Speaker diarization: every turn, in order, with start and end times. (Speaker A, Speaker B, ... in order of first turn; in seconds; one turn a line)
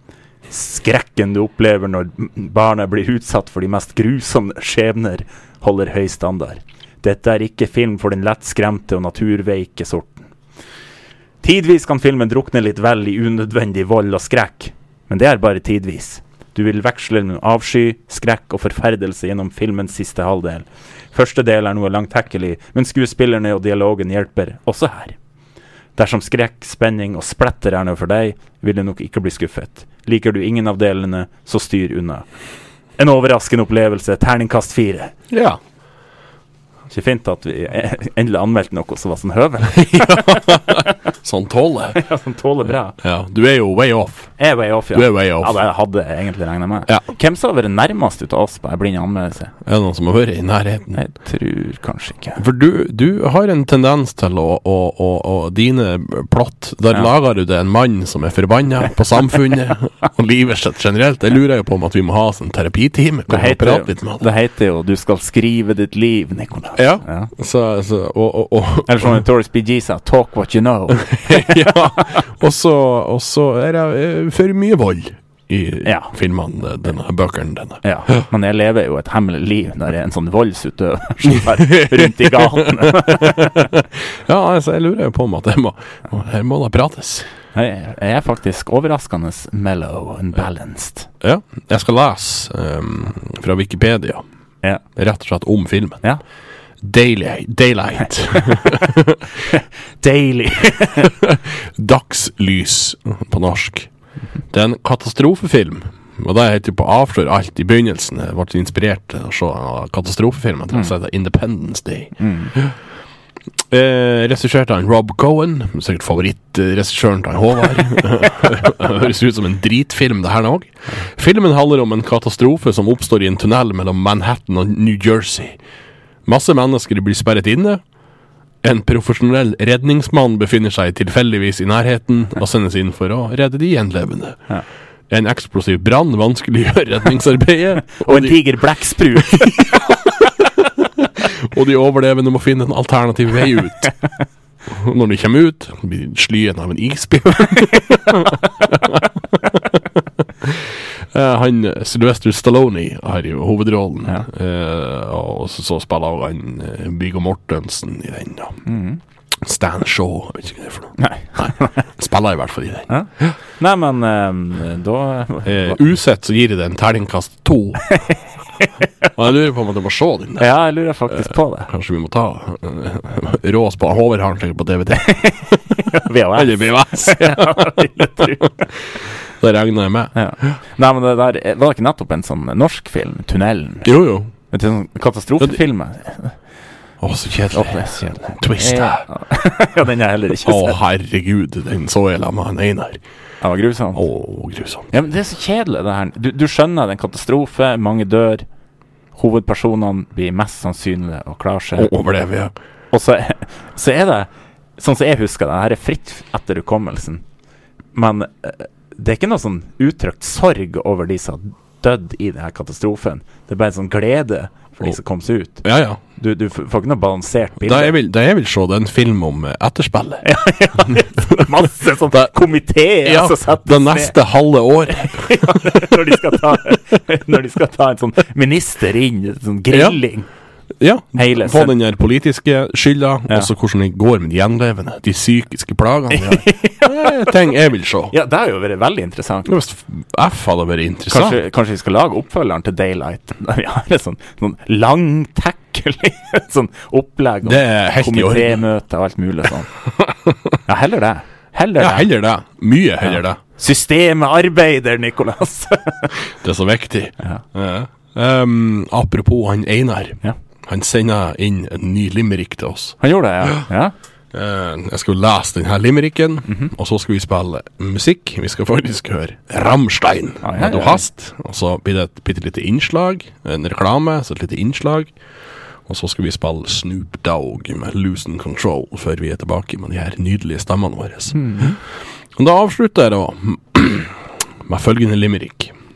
Speaker A: 0.5-10.3
Speaker A: 11.4-25.2
Speaker A: 26.0-32.3
Speaker A: 33.0-35.1
Speaker B: 35.3-35.6
Speaker A: 36.9-40.9
Speaker B: 39.8-42.0
Speaker A: 42.0-43.0
Speaker B: 43.0-44.4
Speaker A: 44.4-49.5
Speaker B: 44.9-45.6
Speaker B: 49.6-51.0
Speaker A: 50.9-52.4
Speaker B: 52.4-64.2
Speaker A: 63.3-67.3
Speaker B: 66.8-69.2
Speaker A: 68.9-72.2
Speaker B: 71.1-77.8
Speaker A: 75.8-76.1
Speaker A: 77.8-83.7
Speaker B: 81.3-87.3
Speaker A: 87.5-91.1
Speaker B: 91.2-94.2
Speaker B: 95.0-96.0
Speaker B: 96.8-99.4
Speaker A: 99.5-101.1
Speaker B: 101.0-103.9
Speaker B: 104.5-112.7
Speaker A: 112.2-112.5
Speaker B: 113.7-125.6
Speaker B: 126.3-127.8
Speaker B: 128.6-134.4
Speaker B: 135.1-138.4
Speaker A: 138.0-140.0
Speaker B: 139.3-143.9
Speaker B: 144.7-149.9
Speaker B: 150.4-158.6
Speaker A: 158.7-159.0
Speaker B: 159.4-163.4
Speaker A: 161.0-161.8
Speaker A: 162.9-165.8
Speaker B: 165.4-168.0
Speaker A: 167.9-168.9
Speaker B: 169.2-170.5
Speaker A: 170.4-171.7
Speaker B: 171.1-175.8
Speaker A: 175.2-178.5
Speaker B: 176.3-178.8
Speaker B: 179.4-180.6
Speaker A: 180.2-183.9
Speaker B: 183.8-184.3
Speaker A: 184.5-186.4
Speaker B: 187.0-189.1
Speaker A: 187.5-190.8
Speaker B: 190.4-193.0
Speaker A: 193.4-194.0
Speaker B: 193.9-194.9
Speaker A: 194.9-198.4
Speaker A: 199.2-201.9
Speaker B: 201.8-202.5
Speaker A: 202.9-207.2
Speaker A: 207.9-215.7
Speaker B: 215.6-216.0
Speaker A: 216.2-217.9
Speaker B: 217.6-220.2
Speaker A: 220.2-224.2
Speaker B: 223.1-226.0
Speaker A: 224.9-230.3
Speaker B: 229.7-230.0
Speaker B: 230.8-238.1
Speaker A: 231.2-231.7
Speaker A: 236.1-237.3
Speaker A: 238.1-239.5
Speaker B: 239.5-241.4
Speaker A: 241.1-249.7
Speaker B: 247.4-248.6
Speaker B: 250.0-250.6
Speaker A: 250.7-252.1
Speaker B: 251.8-253.4
Speaker A: 253.1-256.1
Speaker B: 256.4-263.6
Speaker A: 263.0-263.9
Speaker B: 264.3-275.1
Speaker A: 270.4-271.0
Speaker B: 275.9-281.7
Speaker A: 281.4-281.8
Speaker B: 282.4-285.7